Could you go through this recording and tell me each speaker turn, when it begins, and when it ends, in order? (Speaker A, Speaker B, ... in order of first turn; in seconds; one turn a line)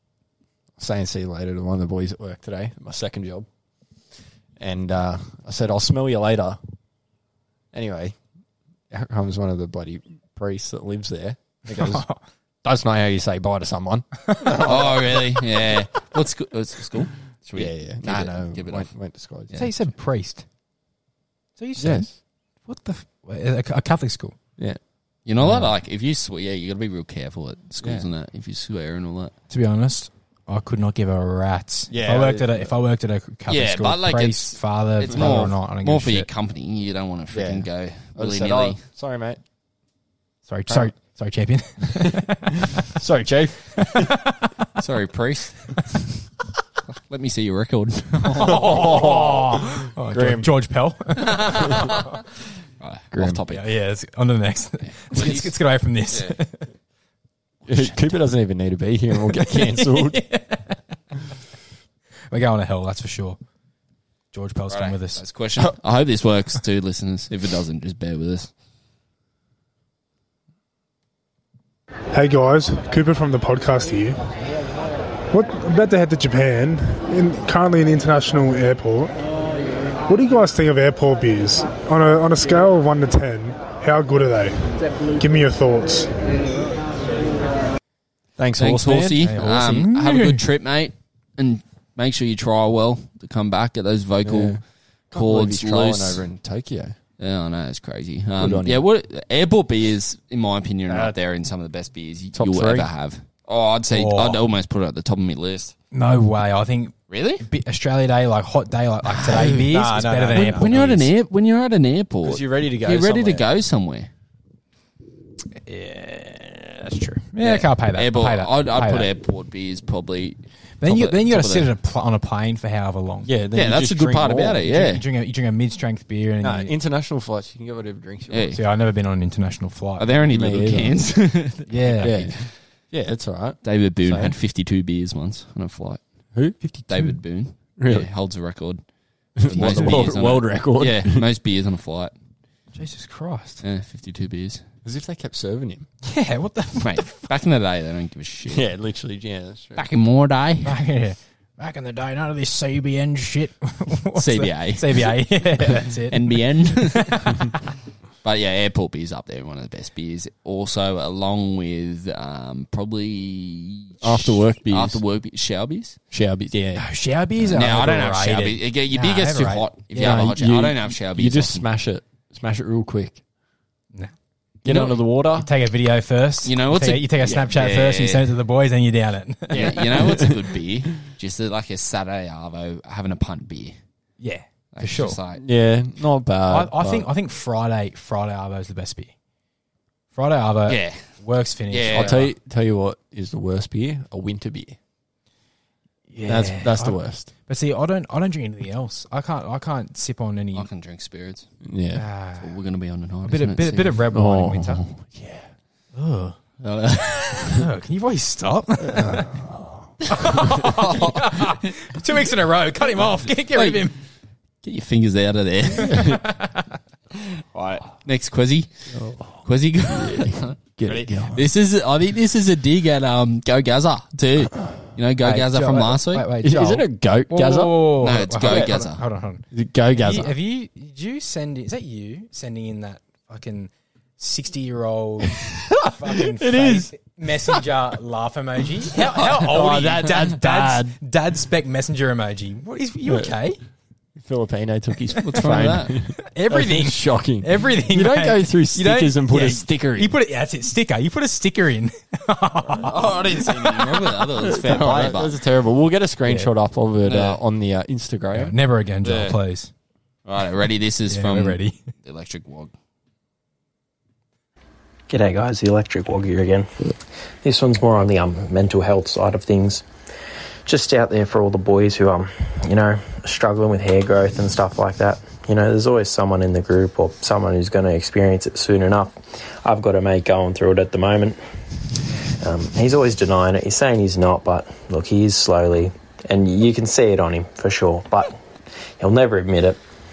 Speaker A: 0.8-3.5
Speaker A: 4.6-6.6
Speaker A: 7.7-8.2
Speaker A: 8.9-12.0
Speaker B: 11.7-12.2
Speaker A: 12.6-15.2
Speaker B: 14.3-14.6
Speaker C: 14.6-18.9
Speaker A: 17.5-19.5
Speaker B: 19.5-20.4
Speaker B: 21.6-22.1
Speaker A: 21.8-22.1
Speaker B: 22.7-24.4
Speaker C: 25.3-29.3
Speaker B: 25.4-25.7
Speaker A: 27.8-28.1
Speaker B: 29.5-36.3
Speaker A: 31.9-32.7
Speaker C: 33.5-38.8
Speaker A: 37.3-39.4
Speaker B: 40.5-43.0
Speaker A: 42.8-44.2
Speaker B: 43.8-44.5
Speaker C: 44.8-46.2
Speaker C: 46.9-49.0
Speaker B: 48.2-52.2
Speaker A: 48.3-50.5
Speaker C: 51.3-52.1
Speaker C: 52.8-53.6
Speaker B: 53.2-56.7
Speaker C: 54.9-55.5
Speaker C: 56.1-56.4
Speaker A: 57.7-60.2
Speaker B: 59.4-60.8
Speaker B: 62.3-63.4
Speaker B: 64.3-65.2
Speaker C: 64.7-68.5
Speaker D: 72.1-74.2
Speaker D: 75.3-79.2
Speaker D: 80.1-84.6
Speaker D: 85.2-86.1
Speaker A: 88.4-89.3
Speaker C: 88.6-94.6
Speaker B: 89.2-90.5
Speaker A: 94.2-97.0
Speaker C: 95.1-96.2
Speaker C: 97.2-105.7
Speaker A: 98.4-98.8
Speaker A: 100.9-101.2
Speaker A: 102.3-102.9
Speaker B: 103.9-104.4
Speaker B: 105.9-111.1
Speaker C: 107.1-107.4
Speaker C: 109.0-109.8
Speaker A: 109.5-110.9
Speaker C: 110.3-114.1
Speaker A: 112.2-113.5
Speaker B: 115.6-119.1
Speaker C: 117.4-121.7
Speaker B: 120.8-123.3
Speaker A: 123.3-124.6
Speaker C: 123.5-125.0
Speaker B: 124.6-126.7
Speaker A: 126.4-128.6
Speaker C: 128.3-128.6
Speaker B: 128.5-130.1
Speaker C: 130.0-132.4
Speaker A: 130.3-131.0
Speaker B: 131.7-132.1
Speaker A: 132.0-134.4
Speaker C: 133.6-136.0
Speaker C: 136.9-138.8
Speaker A: 137.8-138.1
Speaker C: 139.4-142.1
Speaker A: 139.4-141.2
Speaker B: 142.8-143.6
Speaker C: 143.6-144.6
Speaker A: 144.8-145.9
Speaker B: 146.0-147.3
Speaker C: 146.8-148.7
Speaker A: 148.5-149.9
Speaker C: 149.8-150.8
Speaker B: 150.6-157.5
Speaker C: 154.2-155.2
Speaker C: 155.7-157.3
Speaker C: 158.2-166.0
Speaker A: 164.0-165.0
Speaker A: 166.1-166.8
Speaker B: 166.8-170.2
Speaker C: 167.4-171.7
Speaker A: 170.0-173.2
Speaker A: 174.6-175.5
Speaker C: 174.7-175.0
Speaker B: 175.3-179.8
Speaker C: 176.4-178.3
Speaker A: 179.5-180.5
Speaker C: 179.5-183.8
Speaker B: 184.2-185.2
Speaker C: 184.7-185.4
Speaker A: 185.3-187.1
Speaker B: 186.5-189.1
Speaker B: 190.1-192.3
Speaker C: 190.7-191.0
Speaker C: 191.7-192.3
Speaker A: 191.9-194.8
Speaker B: 196.1-200.7
Speaker A: 196.3-197.3
Speaker C: 200.6-201.5
Speaker A: 201.7-202.0
Speaker B: 201.9-202.5
Speaker C: 202.4-204.0
Speaker B: 203.2-204.8
Speaker A: 204.1-205.5
Speaker B: 205.9-206.4
Speaker C: 206.6-207.7
Speaker B: 207.3-209.4
Speaker A: 208.9-209.8
Speaker B: 210.1-214.0
Speaker C: 210.2-211.7
Speaker C: 213.5-213.9
Speaker C: 214.6-216.2
Speaker A: 215.8-216.2
Speaker B: 215.8-216.7
Speaker C: 217.2-218.9
Speaker A: 218.9-221.5
Speaker C: 219.4-226.3
Speaker B: 225.2-229.4
Speaker A: 226.4-228.9
Speaker C: 228.0-229.0
Speaker A: 229.5-230.3
Speaker B: 230.0-243.6
Speaker A: 236.1-236.9
Speaker A: 239.0-241.0
Speaker C: 239.2-239.8
Speaker A: 243.1-243.4
Speaker A: 244.2-250.1
Speaker C: 245.2-246.0
Speaker B: 246.2-253.8
Speaker C: 252.8-255.4
Speaker A: 254.3-258.6
Speaker C: 257.1-257.4
Speaker B: 258.3-259.7
Speaker C: 259.0-259.4
Speaker C: 260.3-262.7
Speaker B: 261.1-261.8
Speaker E: 265.1-266.7
Speaker E: 267.4-269.8
Speaker E: 270.7-281.4
Speaker E: 282.4-288.4
Speaker E: 289.0-289.8